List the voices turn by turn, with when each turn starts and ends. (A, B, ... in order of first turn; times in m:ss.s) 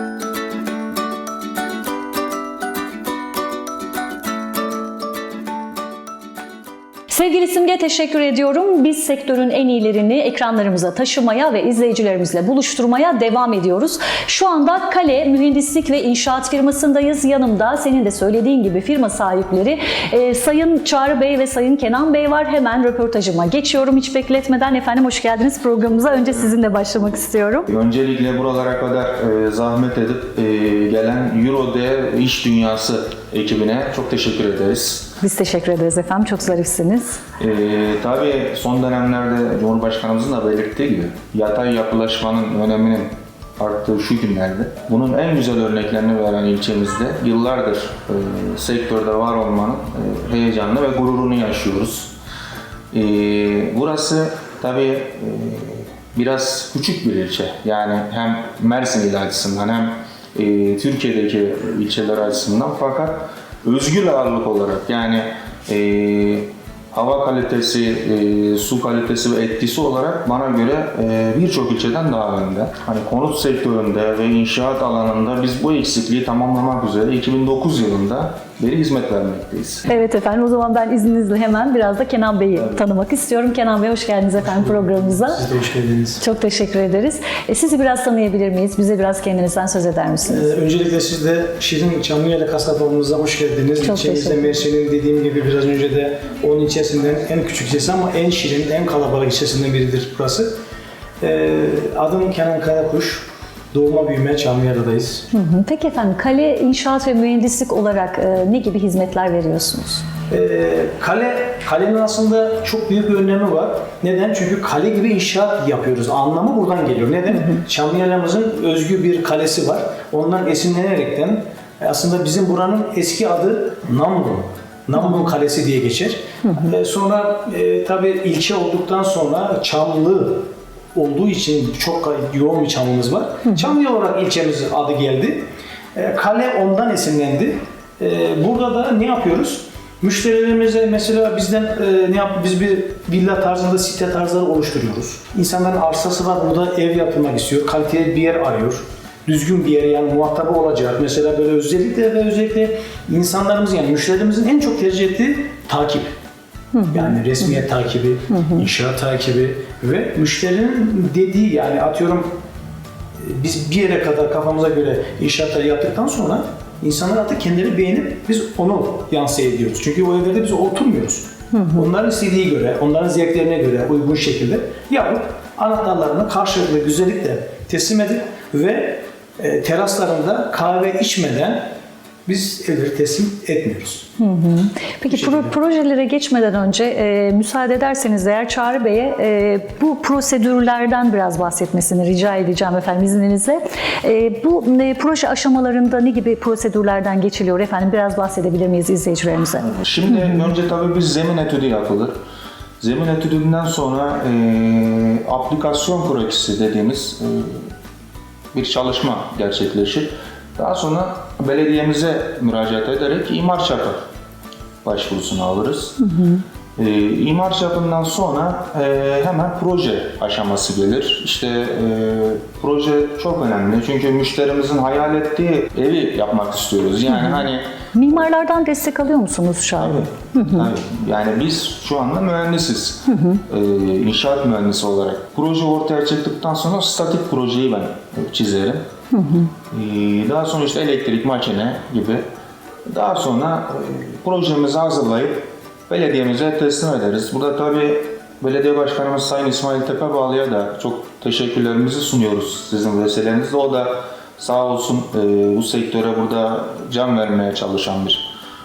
0:07.1-0:27.7 A
0:27.7-0:35.1 B
0:35.2-0:37.2 A
0:37.4-0:52.1 B
0:52.9-1:19.9 B
1:19.9-1:25.4 A
1:24.4-1:26.2 C
1:26.2-1:30.5 A
1:30.3-1:40.5 C
1:33.8-1:34.4 A
1:41.2-1:45.3 C
1:45.3-1:50.0 A
1:50.3-2:36.1 C
2:36.7-2:37.2 A
2:36.9-2:42.3 C
2:43.2-3:01.7 C
3:02.2-3:04.1 C
3:04.2-3:20.5 A
3:05.1-3:05.6 C
3:19.6-3:22.1 B
3:22.8-3:27.7 B
3:28.5-3:34.0 B
3:34.8-3:36.0 B
3:36.0-3:36.4 A
3:36.8-3:47.6 B
3:47.1-3:50.7 A
3:49.8-3:58.8 B
3:53.1-3:53.4 A
3:59.1-3:59.5 A
3:59.7-4:02.2 B
4:02.8-4:18.3 B